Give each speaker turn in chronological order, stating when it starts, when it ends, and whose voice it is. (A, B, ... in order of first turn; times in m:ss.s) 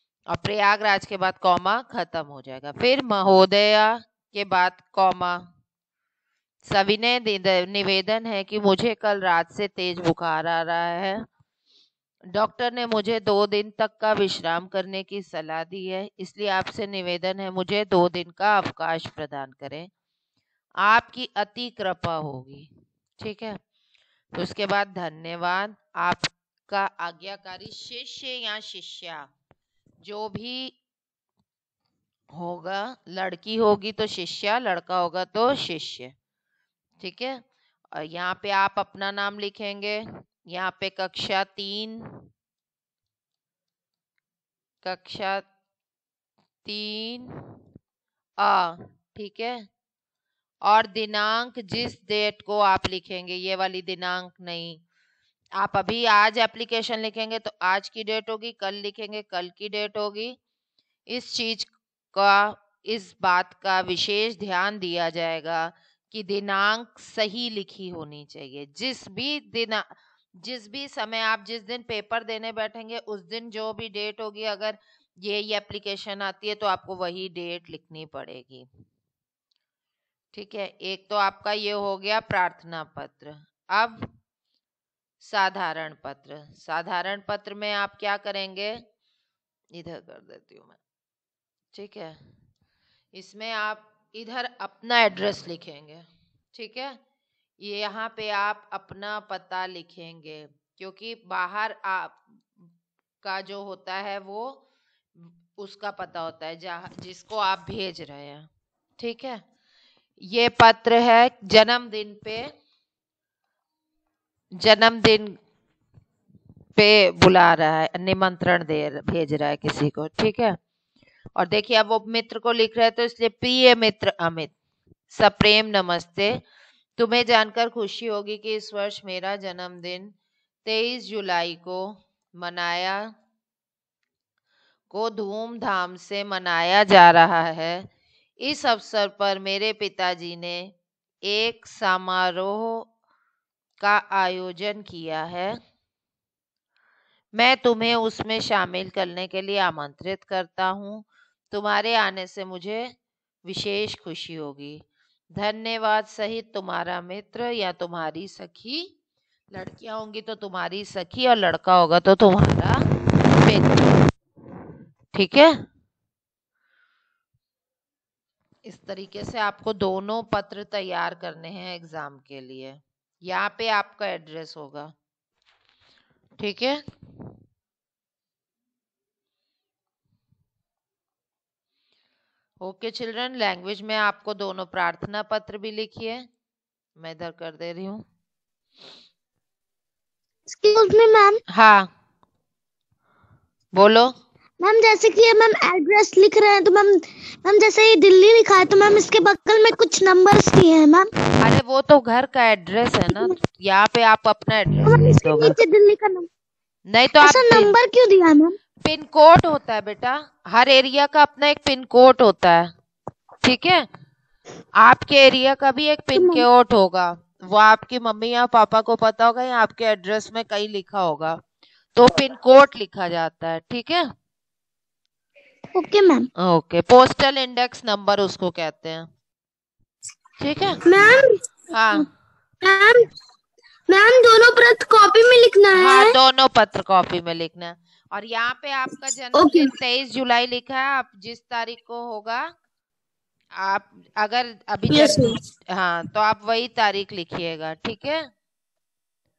0:00.3-0:05.4 A
0:06.7-0:11.2 A
0:12.3-0:19.9 A
0:20.8-0:22.7 A
0:23.2-0:23.6 A
0:24.4-0:29.3 A
0:30.0-0:30.7 A
0:32.3-0:36.1 A
0:37.0-0:37.4 A
0:38.0-0:42.0 A
0:44.8-0:45.4 A
0:46.6-0:47.3 A
0:48.4-0:49.6 A
0:50.6-0:54.8 A
0:55.6-1:00.4 A
1:01.1-1:18.7 A
1:20.3-1:24.0 A
1:25.2-1:28.8 A
1:29.8-1:30.8 A
1:31.7-1:32.2 A
1:33.1-1:37.0 A
1:37.6-1:42.2 A
1:43.2-1:44.6 A
1:45.2-1:48.5 A
1:49.0-1:49.4 A
1:50.2-1:52.4 A
1:54.6-1:55.4 A
1:56.8-2:00.6 A
2:01.4-2:04.5 A
2:05.1-2:06.4 A
2:07.0-2:10.1 A
2:10.6-2:13.1 A
2:14.9-2:17.9 A
2:18.4-2:20.7 A
2:21.2-2:22.9 A
2:23.8-2:25.6 A
2:27.4-2:32.9 A
2:33.4-2:34.8 A
2:35.4-2:38.9 A
2:39.5-2:42.8 A
2:43.3-2:44.0 A
2:45.1-2:45.5 A
2:48.6-2:54.9 A
2:56.4-2:56.8 A
3:02.6-3:06.2 A
3:07.0-3:08.0 A
3:10.5-3:11.4 B
3:11.5-3:11.9 A
3:13.8-3:14.1 A
3:14.6-3:21.1 B
3:21.4-3:25.6 A
3:24.8-3:26.3 B
3:26.9-3:27.7 A
3:27.2-3:28.6 B
3:28.8-3:32.7 A
3:33.4-3:33.8 A
3:34.8-3:41.4 A
3:36.1-3:36.4 B
3:41.9-3:44.0 A
3:45.7-3:46.3 B
3:46.4-3:49.1 A
3:50.4-3:50.8 A
3:50.8-3:51.4 B
3:51.7-3:52.1 A
3:52.6-3:53.0 B
3:53.9-3:56.1 B
3:55.7-4:02.4 A
3:59.3-3:59.7 B
4:03.6-4:08.2 A
4:04.9-4:05.4 B